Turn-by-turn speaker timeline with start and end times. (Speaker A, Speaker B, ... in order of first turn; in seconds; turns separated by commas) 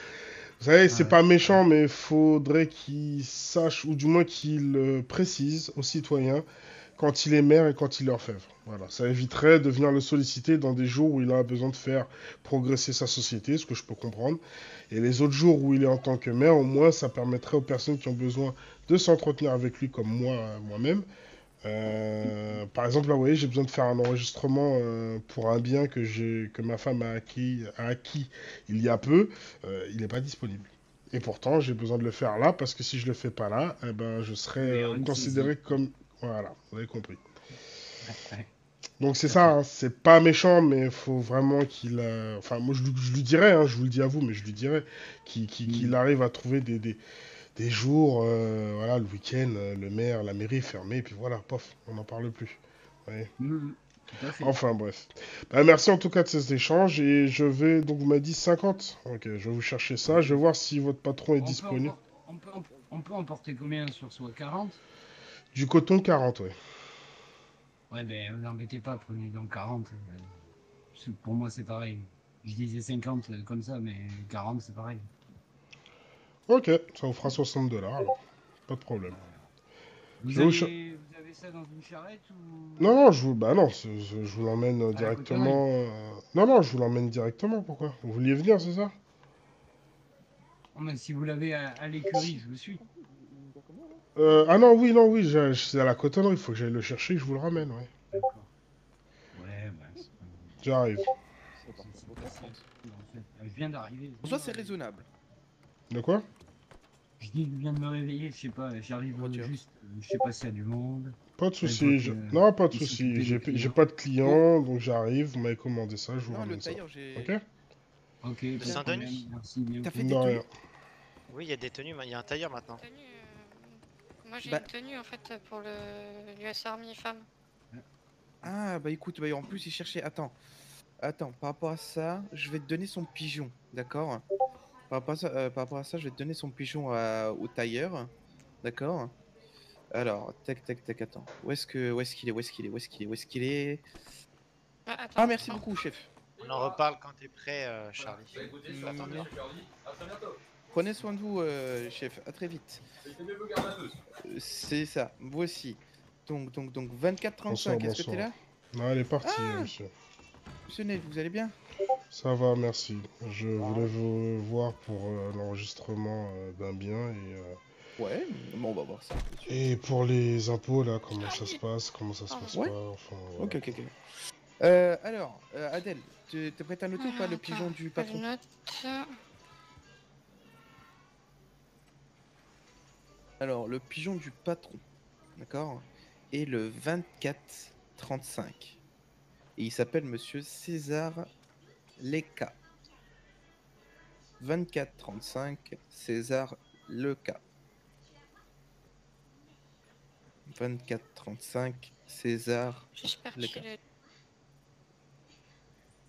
Speaker A: 0.6-6.5, Speaker B: 0.9-1.6, Speaker A: 7.0-21.1, Speaker A: 21.6-37.2, Speaker B: 34.6-35.8, Speaker B: 38.0-38.5, Speaker A: 39.0-47.0, Speaker B: 39.3-39.5, Speaker B: 45.7-46.0, Speaker A: 47.5-53.3, Speaker B: 53.4-54.6, Speaker A: 54.4-61.9, Speaker B: 60.1-60.4, Speaker B: 61.4-64.8, Speaker A: 65.5-66.6, Speaker B: 67.9-70.3, Speaker B: 70.9-75.1, Speaker A: 76.5-79.2, Speaker B: 79.1-79.5, Speaker B: 80.2-83.0, Speaker A: 80.3-80.7, Speaker A: 82.8-89.0, Speaker B: 84.9-85.6, Speaker B: 90.8-92.8, Speaker C: 92.1-94.0, Speaker A: 94.2-97.9, Speaker B: 98.1-98.5, Speaker B: 99.3-100.6, Speaker A: 100.6-101.1, Speaker C: 101.6-102.6, Speaker B: 101.8-104.7, Speaker C: 104.2-105.1, Speaker A: 105.9-106.3, Speaker B: 107.2-113.9, Speaker C: 109.2-109.5, Speaker A: 111.4-117.4, Speaker C: 116.2-117.4, Speaker B: 118.2-120.0, Speaker D: 118.6-119.3, Speaker C: 118.6-119.0, Speaker C: 119.8-120.4, Speaker A: 120.0-120.5, Speaker D: 121.3-122.8, Speaker E: 122.8-127.3, Speaker C: 128.4-130.3, Speaker C: 131.0-134.2, Speaker C: 134.9-138.1, Speaker C: 138.6-139.1, Speaker C: 139.9-143.8, Speaker E: 144.9-145.7, Speaker C: 145.2-146.1, Speaker D: 146.4-149.1, Speaker C: 148.6-149.3, Speaker C: 150.7-152.8, Speaker C: 154.2-158.3, Speaker A: 157.5-159.9, Speaker C: 159.2-159.7, Speaker C: 160.7-161.6, Speaker A: 162.1-167.6, Speaker C: 168.0-169.7, Speaker A: 169.5-173.8, Speaker E: 171.2-171.6, Speaker E: 172.3-172.6, Speaker C: 173.4-173.9, Speaker C: 174.6-178.2, Speaker E: 177.0-179.1, Speaker C: 183.4-184.8, Speaker C: 185.4-188.8, Speaker C: 189.6-191.3, Speaker C: 192.0-192.6, Speaker C: 194.4-197.4, Speaker C: 200.5-203.6, Speaker E: 203.0-203.8